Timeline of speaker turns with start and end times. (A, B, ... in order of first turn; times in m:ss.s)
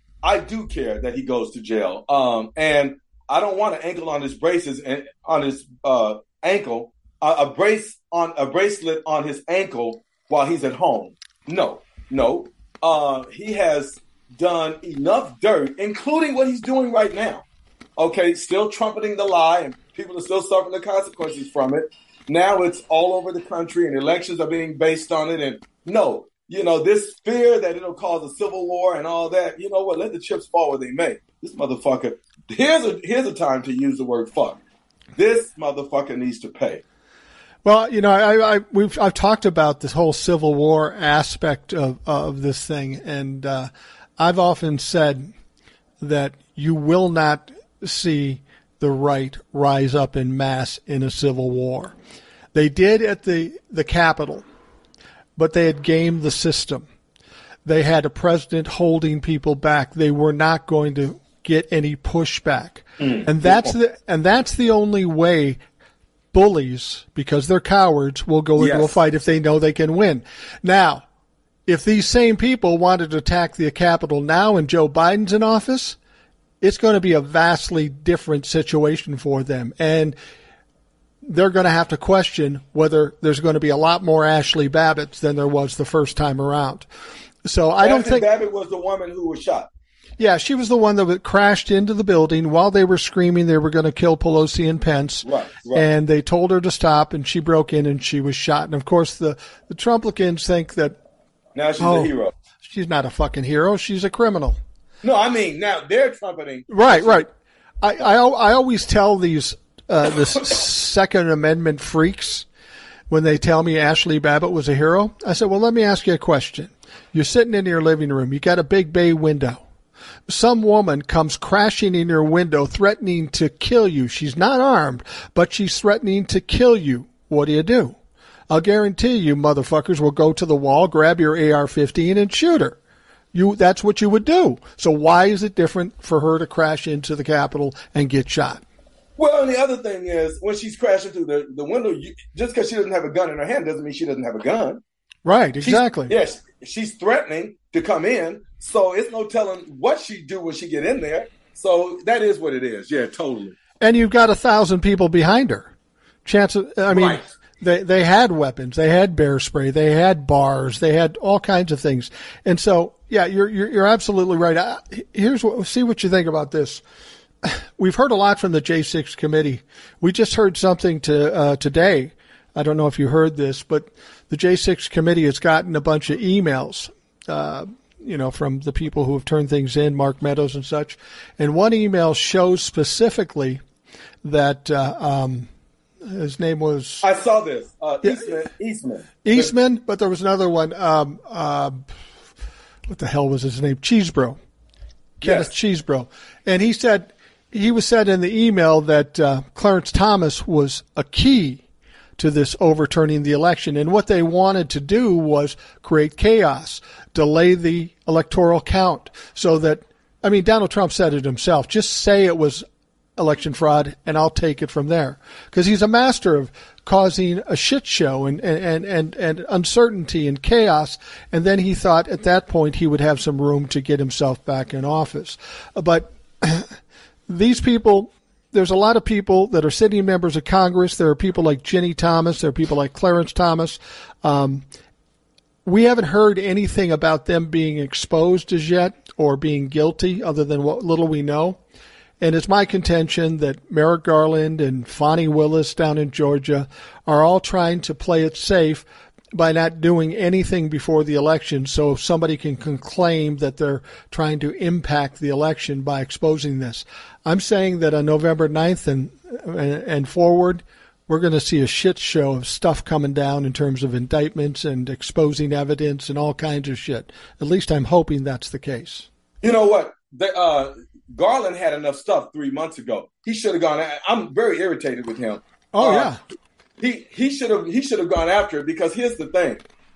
0:00.2-0:17.4 A
0:18.0-0:34.6 A
0:35.2-0:36.8 A
0:37.6-0:45.3 B
0:46.0-0:51.9 B
0:52.5-0:54.4 B
0:55.4-0:56.9 B
0:57.6-1:05.6 B
1:03.0-1:03.7 A
1:06.3-1:11.0 B
1:08.6-1:09.0 A
1:11.7-1:16.0 B
1:16.6-1:20.2 B
1:21.2-1:26.9 B
1:27.4-1:28.2 B
1:27.8-1:29.7 A
1:30.2-1:41.0 B
1:35.2-1:35.9 A
1:41.5-1:42.3 A
1:41.8-1:44.6 B
1:45.0-1:47.2 A
1:46.7-1:47.3 B
1:47.8-1:52.5 B
1:53.1-1:59.6 B
2:00.3-2:08.0 B
2:08.5-2:12.8 B
2:13.3-2:18.6 B
2:19.2-2:24.8 A
2:25.2-2:26.1 B
2:25.6-2:33.6 A
2:33.8-2:35.7 B
2:36.2-2:46.8 B
2:36.9-2:37.3 A
2:47.4-3:03.6 B
3:04.2-3:05.5 B
3:06.0-3:07.0 B
3:07.0-3:09.5 A
3:09.2-3:11.9 B
3:12.9-3:14.4 B
3:15.2-3:21.6 B
3:15.2-3:15.5 A
3:22.2-3:32.6 B
3:33.2-3:46.7 B
3:47.3-3:54.6 B
3:55.6-4:01.6 B
4:02.2-4:29.1 B
4:29.4-4:36.1 A
4:35.7-4:36.2 B
4:36.8-4:39.6 A